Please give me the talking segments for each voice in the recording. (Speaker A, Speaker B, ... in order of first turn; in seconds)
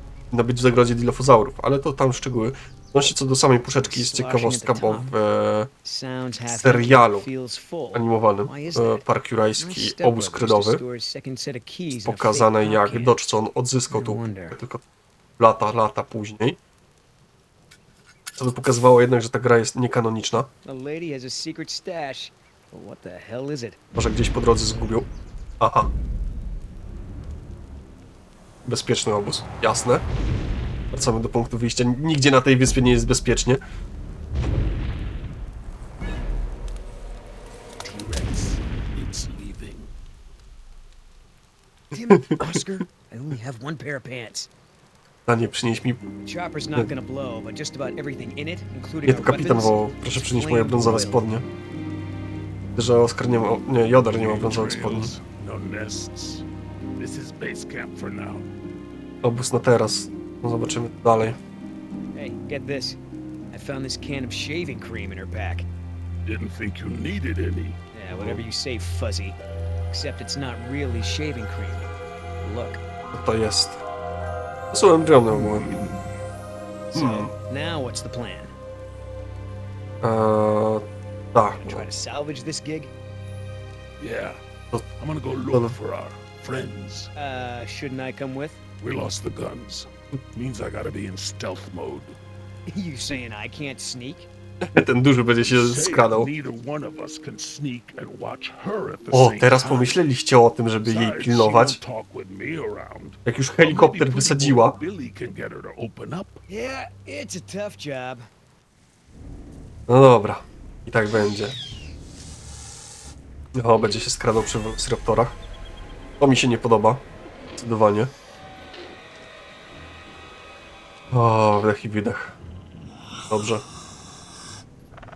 Speaker A: 0.3-5.7, 6.5-7.3, 7.9-10.8, 12.0-14.8, 15.4-16.6, 18.4-20.5, 23.9-25.1, 25.6-25.9, 28.6-30.0, 30.9-33.6, 42.1-42.6, 45.2-46.0, 49.0-51.4, 52.7-55.1, 59.2-61.4, 73.1-73.8, 74.7-75.7, 76.9-77.3, 80.0-81.9, 85.5-85.8, 94.7-96.3, 99.1-101.8, 103.2-104.8, 109.9-111.6, 113.5-115.3, 116.2-117.0, 117.5-118.1, 121.1-122.3, 123.3-123.6
Speaker B: 3.8-5.1, 5.8-9.0, 9.6-13.2, 13.9-14.6, 20.6-23.8, 41.9-44.5, 46.2-51.2, 62.1-63.0, 63.5-65.7, 67.9-69.4, 69.9-71.9, 72.4-72.8, 76.9-78.5, 81.6-82.9, 87.2-88.6, 92.7-94.3, 106.5-108.2
Speaker C: 37.8-39.9, 54.1-56.4, 57.0-58.5, 66.2-67.8, 75.3-76.0, 84.0-84.4, 85.0-87.1, 88.8-92.2, 95.4-100.0, 100.8-106.4